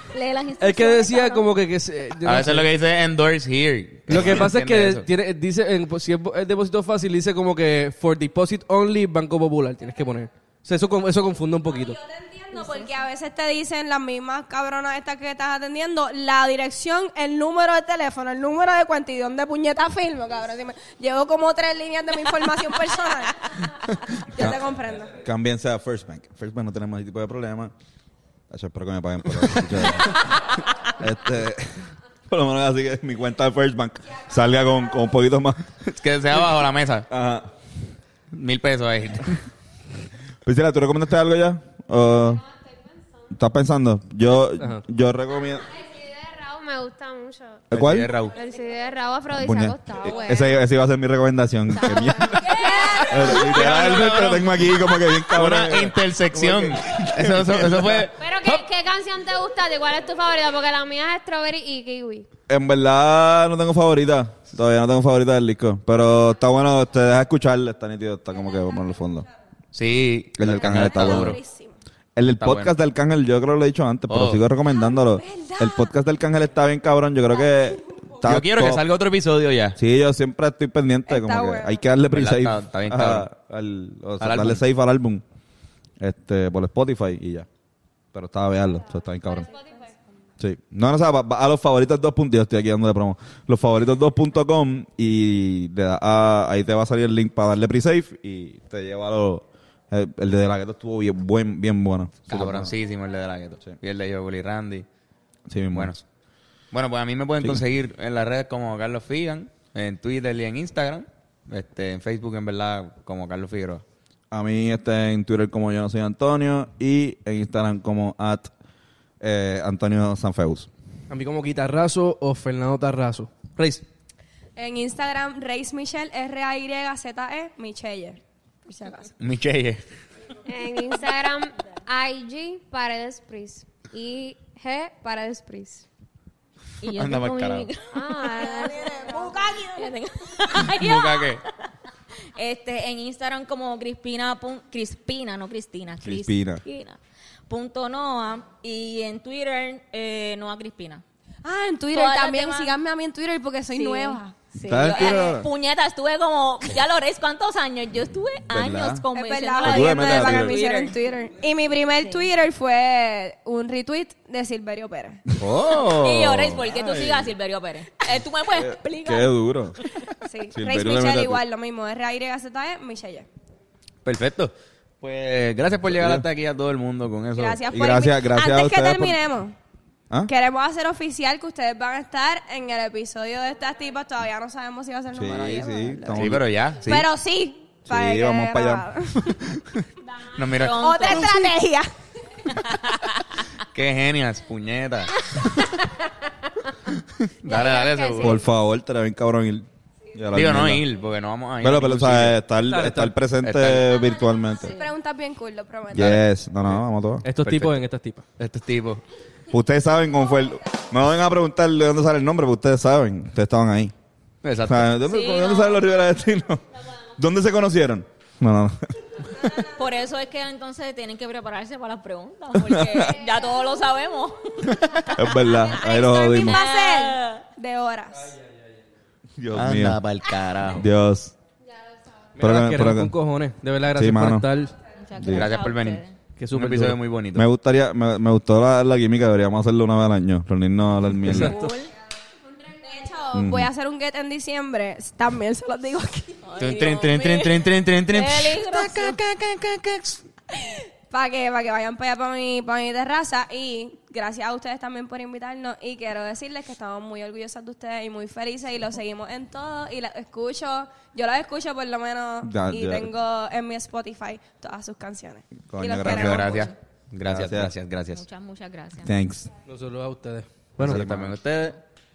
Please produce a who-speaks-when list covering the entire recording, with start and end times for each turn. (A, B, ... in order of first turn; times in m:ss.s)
0:00.1-0:01.5 A
0:00.6-0:02.7 B
0:02.2-0:05.1 C
0:04.1-0:12.0 B
0:11.7-0:23.7 D
0:12.5-0:12.9 A
0:24.2-0:25.2 D
0:24.4-0:27.7 E
0:28.5-0:35.6 E
0:35.8-0:37.1 C
0:37.1-0:37.5 E
0:38.3-0:39.4 C
0:40.4-0:42.4 E
0:42.2-0:43.3 F
0:43.3-0:45.7 E
0:45.7-0:47.7 F
0:47.7-0:48.1 E
0:47.7-0:48.4 C
0:48.3-0:50.6 F
0:49.4-0:58.1 E
0:51.7-0:53.2 F
0:52.4-0:53.1 A
0:52.4-0:53.5 D
0:53.2-0:58.6 C
0:58.2-1:02.3 F
1:02.5-1:09.3 E
1:09.7-1:11.4 C
1:10.4-1:11.4 E
1:10.5-1:11.8 D
1:12.2-1:18.8 E
1:12.4-1:12.7 C
1:14.1-1:14.4 C
1:14.7-1:15.9 D
1:18.2-1:19.8 C
1:19.8-1:25.2 E
1:21.1-1:21.8 D
1:22.1-1:23.3 C
1:24.2-1:24.6 C
1:26.0-1:27.5 E
1:28.1-1:29.5 E
1:29.1-1:30.0 F
1:30.4-1:42.7 E
1:42.3-1:44.9 C
1:45.5-1:45.9 E
1:45.7-1:46.0 C
1:46.7-1:53.8 C
1:54.3-1:58.5 E
1:59.2-2:00.7 E
2:01.1-2:03.8 B
2:04.6-2:09.1 D
2:09.2-2:09.9 C
2:10.5-2:15.8 F
2:16.8-2:18.7 A
2:17.0-2:17.7 C
2:17.9-2:19.3 F
2:18.4-2:19.9 D
2:19.8-2:21.4 A
2:20.6-2:21.4 C
2:22.4-2:31.0 A
2:26.0-2:26.6 E
2:31.4-2:34.4 D
2:31.9-2:32.7 A
2:33.7-2:40.9 A
2:34.7-2:35.5 E
2:38.5-2:39.0 E
2:39.1-2:45.2 D
2:39.6-2:40.6 E
2:42.0-2:42.3 A
2:45.4-2:45.8 E
2:45.4-2:47.1 C
2:46.0-2:49.3 A
2:48.5-2:49.8 E
2:50.2-2:53.3 D
2:50.5-2:51.4 E
2:54.0-2:57.6 C
2:55.8-2:56.2 E
2:57.4-2:59.6 D
2:57.7-2:59.2 E
3:00.3-3:06.3 D
3:05.1-3:06.4 E
3:06.2-3:07.1 C
3:06.9-3:09.4 D
3:07.9-3:08.9 E
3:10.1-3:10.4 F
3:10.4-3:11.3 C
3:10.5-3:11.5 A
3:10.7-3:11.9 D
3:13.7-3:15.4 C
3:17.2-3:18.4 C
3:17.5-3:18.4 F
3:18.2-3:20.9 E
3:20.3-3:22.4 C
3:21.6-3:24.8 E
3:22.7-3:23.2 B
3:23.4-3:24.0 C
3:24.5-3:24.8 A
3:24.7-3:26.3 D
3:25.9-3:27.3 E
3:27.2-3:28.2 B
3:27.4-3:27.8 C
3:28.4-3:29.0 C
3:29.5-3:33.9 E
3:34.4-3:34.9 C
3:34.6-3:36.6 E
3:35.0-3:35.8 A
3:37.2-3:38.8 E
3:39.7-3:45.5 A
3:42.6-3:43.2 E
3:45.1-3:46.6 E
3:45.6-3:48.4 D
3:46.0-3:47.4 A
3:49.4-3:50.0 E
3:49.5-3:50.9 C
3:50.6-3:51.4 E
3:52.4-3:54.8 B
3:52.4-3:53.1 E
3:53.9-3:54.5 E
3:55.0-3:56.2 A
3:55.2-3:55.5 E
3:55.3-3:57.5 C
3:56.4-3:57.0 B
3:57.4-4:01.6 E
4:01.2-4:01.8 B
4:01.3-4:01.9 A
4:02.8-4:06.5 D
4:03.3-4:03.7 E
4:06.4-4:09.2 A
4:06.6-4:08.6 C
4:09.4-4:10.2 B
4:10.5-4:26.7 D
4:22.4-4:23.1 E
4:25.7-4:26.6 E
4:26.0-4:28.2 C
4:27.3-4:27.7 E
4:28.1-4:29.1 A
4:29.0-4:29.5 E
4:29.7-4:31.0 B
4:30.8-4:31.4 E
4:30.8-4:31.8 C